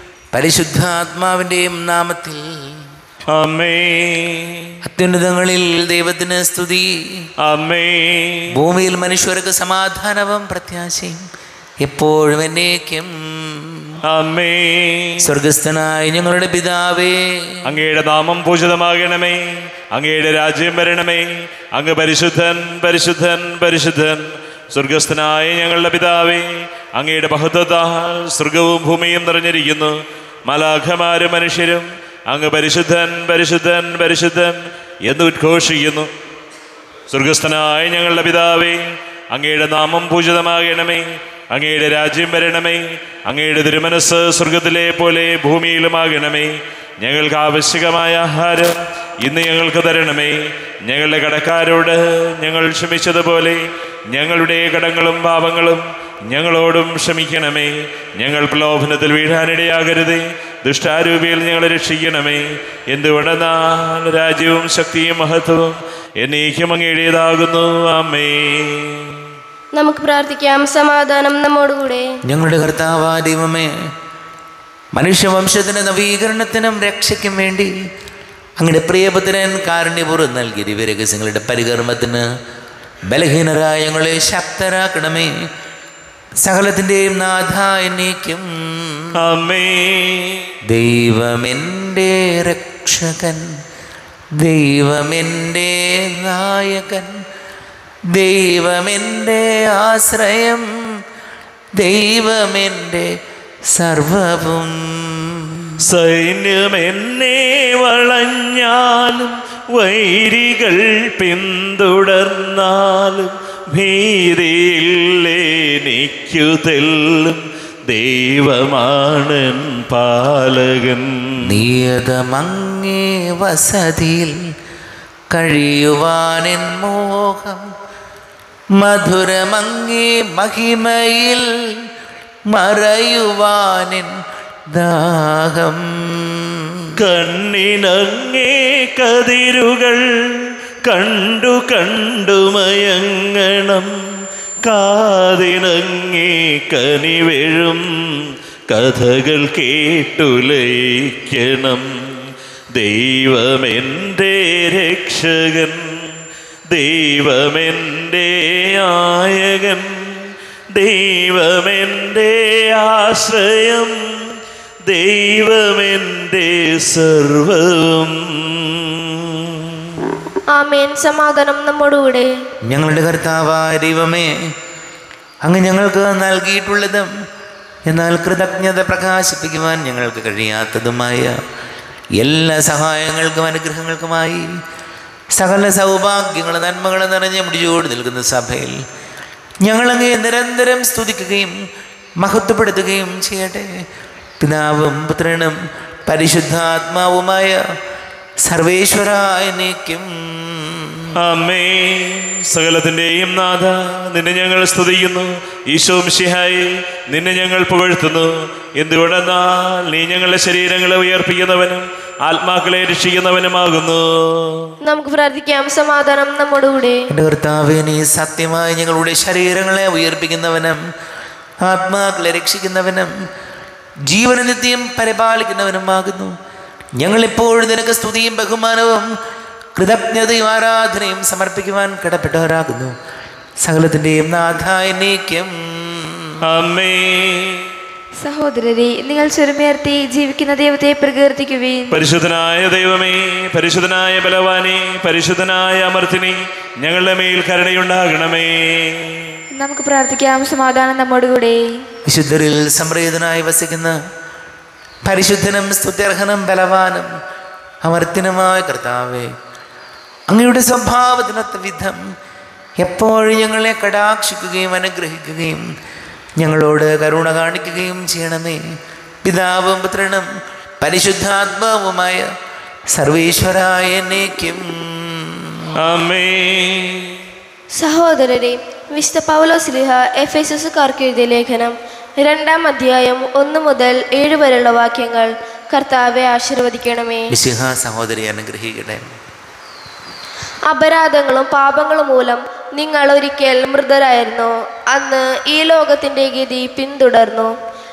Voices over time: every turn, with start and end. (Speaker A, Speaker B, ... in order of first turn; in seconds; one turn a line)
Speaker A: 0.3-2.8
Speaker B: 3.3-4.7
Speaker A: 4.8-7.3
Speaker B: 7.4-8.5
Speaker A: 8.5-11.2
Speaker A: 11.8-14.0
Speaker B: 14.1-15.2
Speaker A: 15.2-17.6
Speaker B: 17.6-36.1
Speaker B: 37.1-69.2
Speaker C: 69.7-72.1
Speaker A: 72.2-73.7
Speaker A: 74.9-77.7
Speaker A: 78.6-82.2
Speaker A: 83.1-85.3
Speaker A: 86.4-89.1
Speaker B: 89.2-90.5
Speaker A: 90.7-93.5
Speaker A: 94.4-97.2
Speaker A: 98.1-100.7
Speaker A: 101.8-103.1
Speaker A: 103.7-105.7
Speaker B: 105.8-121.4
Speaker A: 121.4-124.3
Speaker A: 125.3-127.6
Speaker A: 128.8-131.9
Speaker A: 132.5-134.1
Speaker A: 134.7-136.9
Speaker B: 137.0-143.9
Speaker B: 144.6-151.9
Speaker B: 152.7-156.1
Speaker B: 156.7-160.2
Speaker B: 160.7-164.2
Speaker B: 164.8-170.1
Speaker C: 170.5-172.3
Speaker A: 172.7-174.3
Speaker A: 175.4-177.1
Speaker A: 177.9-181.4
Speaker A: 182.2-184.4
Speaker A: 185.3-188.8
Speaker A: 189.6-191.5
Speaker A: 192.2-193.7
Speaker A: 194.4-195.5
Speaker A: 196.1-197.6
Speaker A: 198.4-201.1
Speaker B: 201.2-214.7
Speaker C: 214.8-217.0
Speaker A: 217.1-220.8
Speaker A: 221.6-223.1
Speaker A: 224.1-226.3
Speaker A: 227.0-229.1
Speaker A: 229.8-232.9
Speaker A: 233.6-236.4
Speaker B: 236.4-237.7
Speaker D: 238.2-242.0
Speaker B: 241.9-249.4
Speaker D: 249.6-251.7
Speaker A: 252.1-254.0
Speaker A: 255.0-257.1
Speaker A: 257.8-259.3
Speaker A: 260.3-262.0
Speaker A: 262.8-265.6
Speaker A: 266.4-268.6
Speaker A: 269.2-270.2
Speaker A: 270.8-272.3
Speaker A: 272.9-275.8
Speaker B: 275.7-277.2
Speaker C: 277.7-287.3
Speaker A: 287.3-289.1
Speaker C: 290.7-297.5